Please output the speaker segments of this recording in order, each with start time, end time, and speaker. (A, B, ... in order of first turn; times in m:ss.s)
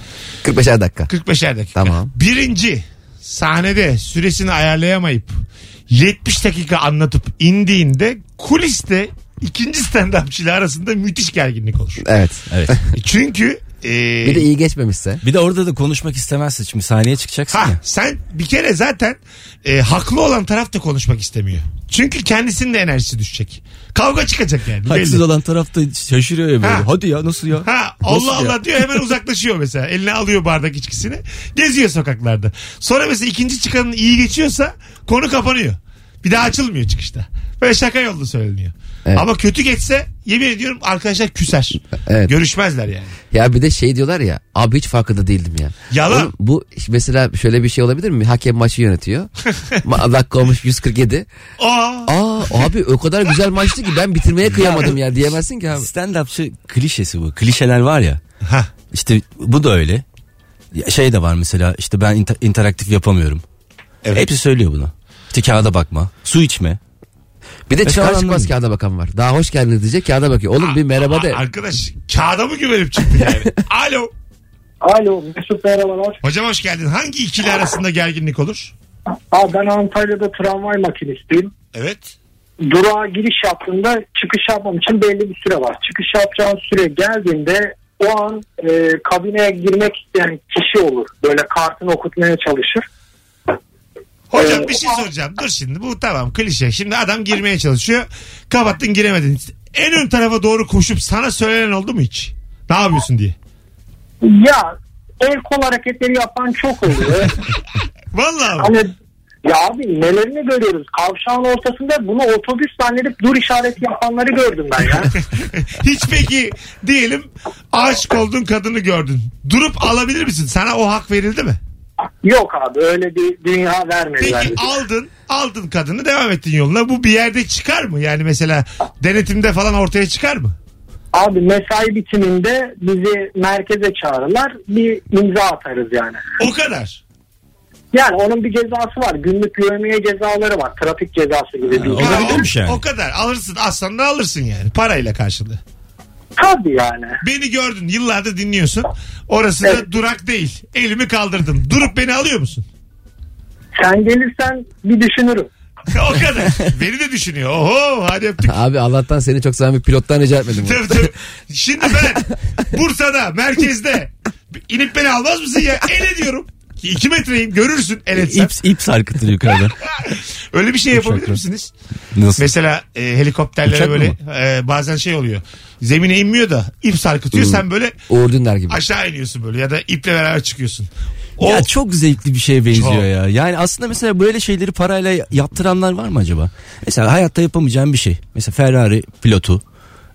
0:00.4-0:01.1 A
0:01.1-0:12.0 B
0:01.7-0:02.1 A
0:12.0-0:12.8 A
0:12.5-0:12.8 C
0:12.9-0:14.4 B
0:14.2-0:15.2 A
0:15.2-0:17.8 C
0:17.5-0:25.2 B
0:24.8-0:29.0 C
0:26.6-0:26.9 B
0:27.6-0:43.2 B
0:42.0-0:42.3 A
0:43.3-0:49.3 A
0:45.9-0:46.3 B
0:49.8-0:51.3 A
0:51.6-0:52.7 B
0:52.0-0:55.9 A
0:55.7-0:58.2 C
0:58.4-0:58.7 B
0:58.9-1:00.0 C
1:00.7-1:03.4 C
1:04.1-1:06.8 C
1:07.7-1:11.4 A
1:07.8-1:08.5 C
1:10.6-1:14.1 B
1:14.8-1:16.2 D
1:16.2-1:18.7 B
1:19.3-1:21.5 D
1:21.7-1:22.1 B
1:22.6-1:32.8 D
1:34.3-1:43.4 B
1:34.3-1:34.8 D
1:44.2-1:47.3 D
1:48.1-1:48.7 B
1:48.6-1:48.9 D
1:49.4-1:55.1 D
1:55.2-2:01.6 B
2:02.2-2:04.6 D
2:04.2-2:10.6 B
2:11.1-2:16.2 D
2:16.4-2:17.0 B
2:17.9-2:22.5 D
2:21.7-2:22.8 C
2:22.0-2:25.6 B
2:26.4-2:27.2 D
2:27.2-2:32.6 B
2:33.7-2:35.5 D
2:35.9-2:38.5 B
2:38.4-2:41.1 A
2:40.6-2:48.5 B
2:48.2-2:49.8 C
2:49.9-2:51.7 B
2:50.9-2:51.4 C
2:52.1-2:52.4 C
2:52.4-2:57.9 B
2:53.6-2:54.2 C
2:57.3-2:58.8 A
2:58.7-3:01.7 B
3:01.4-3:09.6 C
3:02.7-3:03.0 B